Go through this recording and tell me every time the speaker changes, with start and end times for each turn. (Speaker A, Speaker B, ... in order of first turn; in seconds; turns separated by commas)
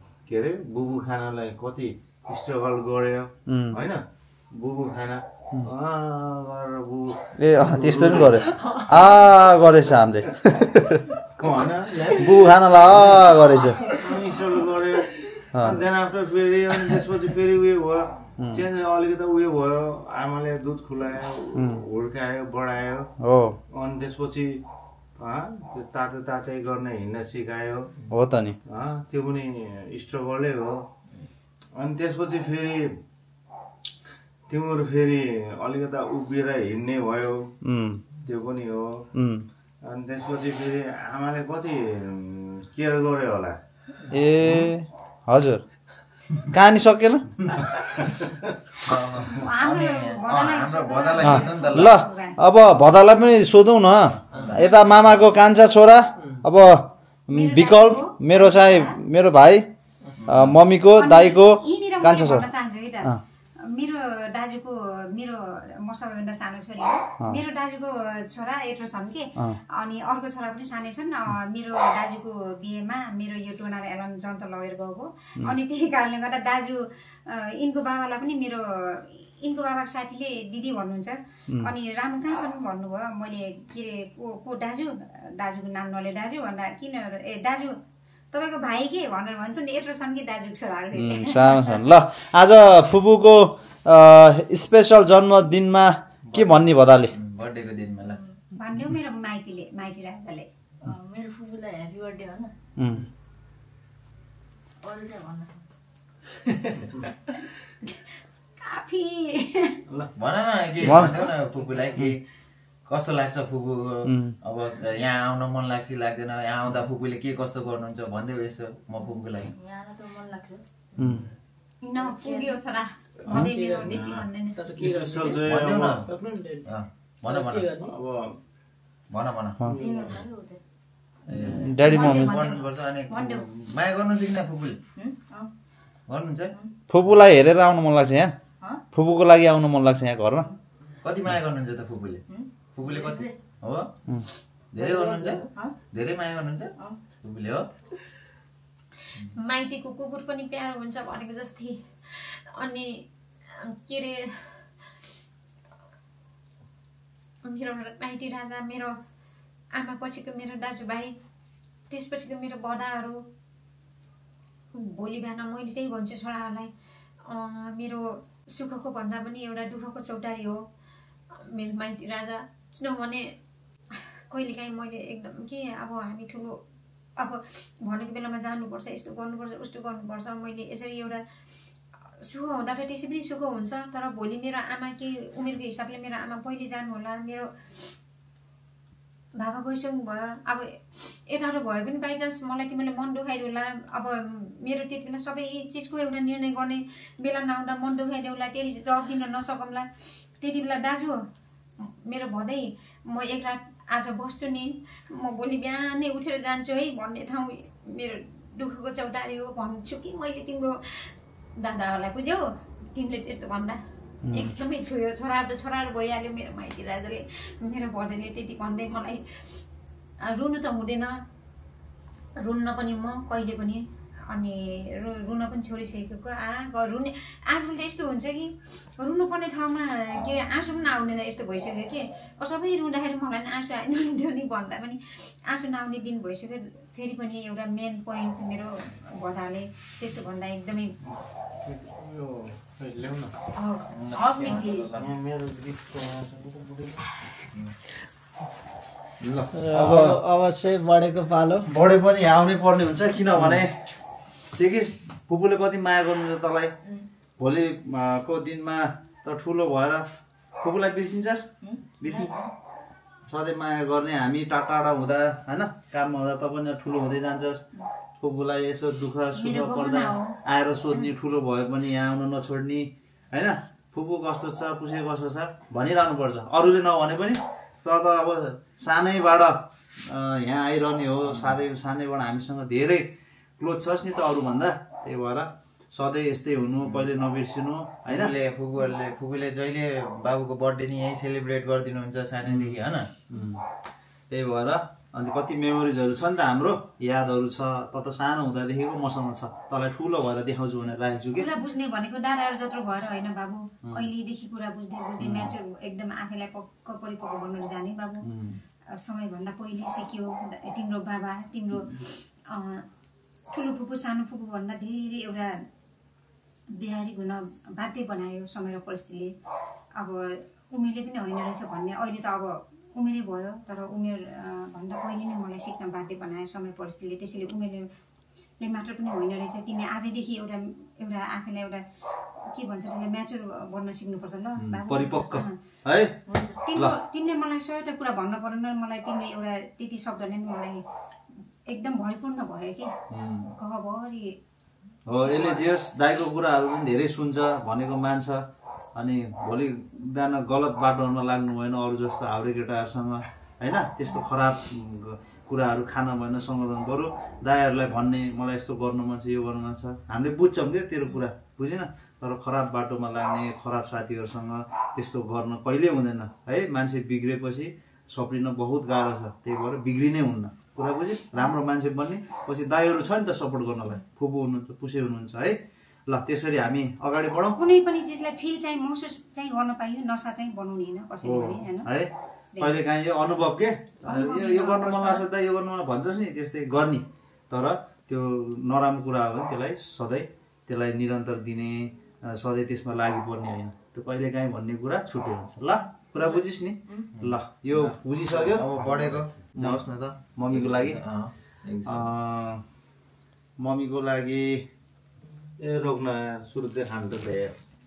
Speaker A: 0.3-8.6, Speaker B: 3.5-3.8, Speaker B: 7.4-11.1, Speaker C: 8.4-8.9, Speaker A: 11.4-23.1, Speaker B: 12.1-13.9, Speaker B: 15.5-15.8, Speaker B: 21.6-21.8, Speaker B: 23.2-23.6, Speaker A: 23.7-24.6, Speaker A: 25.2-28.0, Speaker B: 28.1-28.6, Speaker A: 28.7-30.8, Speaker A: 31.8-33.0, Speaker A: 34.5-37.5, Speaker B: 37.6-38.0, Speaker A: 38.2-39.0, Speaker B: 39.1-39.5, Speaker A: 39.9-43.6, Speaker B: 44.1-45.6, Speaker B: 46.4-47.4, Speaker D: 48.9-52.0, Speaker E: 49.3-52.4, Speaker B: 51.2-59.7, Speaker E: 57.3-59.0, Speaker D: 60.2-60.6, Speaker B: 60.3-62.5, Speaker E: 61.0-63.1, Speaker E: 63.7-87.8, Speaker E: 88.3-91.8, Speaker B: 91.0-97.2, Speaker D: 96.3-98.2, Speaker F: 98.0-98.4, Speaker E: 98.5-100.5, Speaker F: 100.8-102.5, Speaker B: 102.8-103.1, Speaker F: 104.8-105.7, Speaker E: 108.6-109.8, Speaker D: 110.2-112.2, Speaker B: 110.8-111.3, Speaker D: 112.9-119.5, Speaker B: 114.0-114.4, Speaker F: 119.6-121.2, Speaker B: 121.0-121.3, Speaker E: 121.8-124.6, Speaker F: 122.0-122.6, Speaker C: 123.3-126.7, Speaker A: 123.8-124.2, Speaker A: 124.8-126.1, Speaker D: 125.4-126.1, Speaker D: 126.7-127.7, Speaker C: 127.2-128.0, Speaker A: 127.8-128.4, Speaker D: 129.1-130.2, Speaker F: 129.8-130.6, Speaker D: 131.3-134.8, Speaker B: 131.5-132.4, Speaker E: 131.8-133.4, Speaker F: 135.0-135.5, Speaker D: 136.1-136.5, Speaker B: 136.9-138.3, Speaker B: 138.9-140.5, Speaker D: 141.0-142.2, Speaker F: 142.3-143.3, Speaker D: 142.7-143.9, Speaker D: 144.7-147.6, Speaker F: 144.8-145.8, Speaker E: 149.3-154.5, Speaker E: 157.4-158.9, Speaker E: 159.8-161.2, Speaker E: 161.9-163.2, Speaker E: 164.8-166.7, Speaker E: 167.3-170.6, Speaker E: 171.3-173.2, Speaker E: 174.3-176.6, Speaker E: 177.2-181.2, Speaker E: 182.2-187.5, Speaker E: 189.4-199.9, Speaker E: 200.4-201.2, Speaker E: 201.8-213.8, Speaker B: 214.3-214.5, Speaker E: 214.3-219.2, Speaker E: 220.2-221.2, Speaker E: 222.4-241.0, Speaker A: 241.6-243.3, Speaker E: 243.6-244.9, Speaker D: 243.9-245.1, Speaker A: 244.9-247.1, Speaker B: 249.2-250.2, Speaker C: 249.5-251.7, Speaker B: 251.7-253.7, Speaker B: 254.6-256.7, Speaker B: 257.4-260.0, Speaker B: 260.6-261.5, Speaker F: 261.6-262.5, Speaker B: 262.0-262.3, Speaker B: 263.3-267.6, Speaker B: 268.2-288.3, Speaker E: 269.4-270.4, Speaker D: 288.1-293.1, Speaker B: 292.4-292.8, Speaker B: 293.3-293.6, Speaker B: 294.3-301.5, Speaker E: 301.3-308.3, Speaker B: 305.2-305.5, Speaker B: 308.2-308.6, Speaker E: 309.0-312.9, Speaker E: 313.5-315.5, Speaker E: 316.7-319.3, Speaker E: 320.0-327.9, Speaker E: 328.6-331.8, Speaker E: 332.5-335.6, Speaker B: 334.6-336.1, Speaker F: 336.3-336.6, Speaker E: 336.6-340.8, Speaker E: 341.7-342.9, Speaker B: 343.1-343.5, Speaker E: 343.5-344.4, Speaker B: 345.1-348.4, Speaker E: 345.2-345.6, Speaker B: 349.0-375.6, Speaker B: 376.1-377.6, Speaker E: 377.6-381.9, Speaker B: 381.2-398.7, Speaker E: 382.5-382.8, Speaker E: 384.0-385.2, Speaker F: 396.2-397.1, Speaker D: 397.2-402.1, Speaker A: 398.7-399.2, Speaker B: 400.4-401.0, Speaker B: 401.9-402.6, Speaker B: 403.6-404.6, Speaker A: 405.6-407.5